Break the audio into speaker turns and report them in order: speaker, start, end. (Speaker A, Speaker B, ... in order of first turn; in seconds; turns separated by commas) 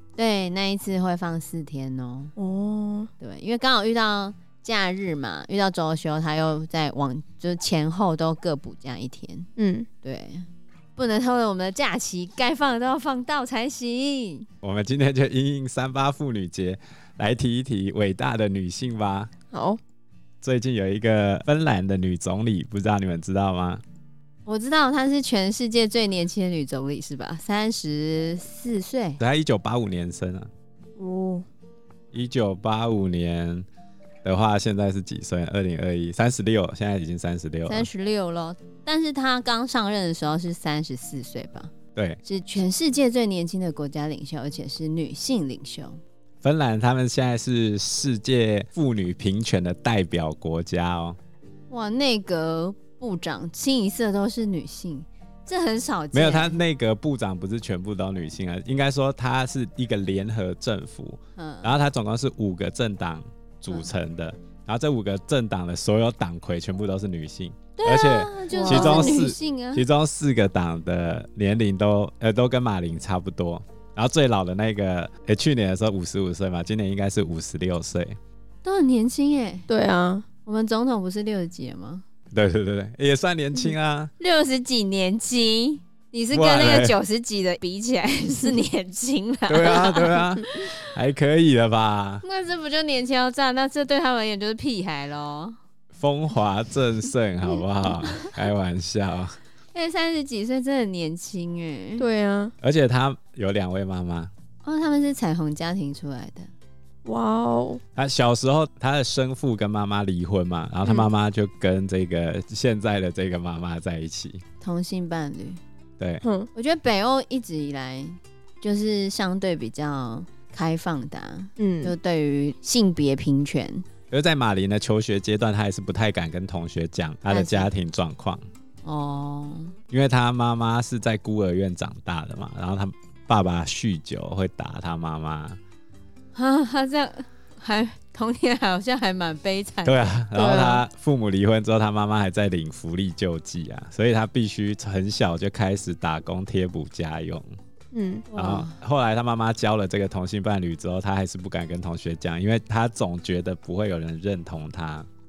Speaker A: 0.2-2.3, Speaker B: 2.4-3.1, Speaker A: 3.2-9.5, Speaker B: 9.6-9.9, Speaker A: 10.0-14.5, Speaker C: 14.6-19.3, Speaker B: 19.5-19.8, Speaker C: 20.4-23.8, Speaker A: 24.5-29.2, Speaker C: 29.2-30.5, Speaker B: 31.0-31.4, Speaker C: 32.1-33.7, Speaker C: 34.2-37.9, Speaker A: 37.7-41.7, Speaker C: 42.0-42.2, Speaker A: 42.2-46.0, Speaker C: 46.4-51.2, Speaker A: 51.7-56.6, Speaker C: 56.1-78.2, Speaker A: 61.4-61.7, Speaker A: 67.8-69.8, Speaker B: 68.5-69.2, Speaker A: 78.7-79.7, Speaker B: 79.7-80.2, Speaker A: 80.5-82.0, Speaker C: 82.3-84.1, Speaker A: 84.2-90.8, Speaker C: 86.3-87.0, Speaker C: 89.5-92.2, Speaker A: 92.2-95.6, Speaker C: 95.9-99.4, Speaker A: 99.7-102.0, Speaker B: 102.0-102.5, Speaker C: 102.6-104.3, Speaker A: 104.6-106.5, Speaker B: 107.0-107.8, Speaker C: 108.0-114.4, Speaker A: 114.6-115.6, Speaker B: 116.2-116.5, Speaker A: 116.5-123.8, Speaker B: 121.6-121.9, Speaker C: 124.1-128.4, Speaker A: 127.3-127.7, Speaker A: 128.8-129.8, Speaker C: 129.9-135.6, Speaker A: 136.3-140.1, Speaker C: 139.8-147.5, Speaker B: 140.3-140.8, Speaker B: 147.9-148.3, Speaker A: 148.3-148.8, Speaker C: 148.3-155.1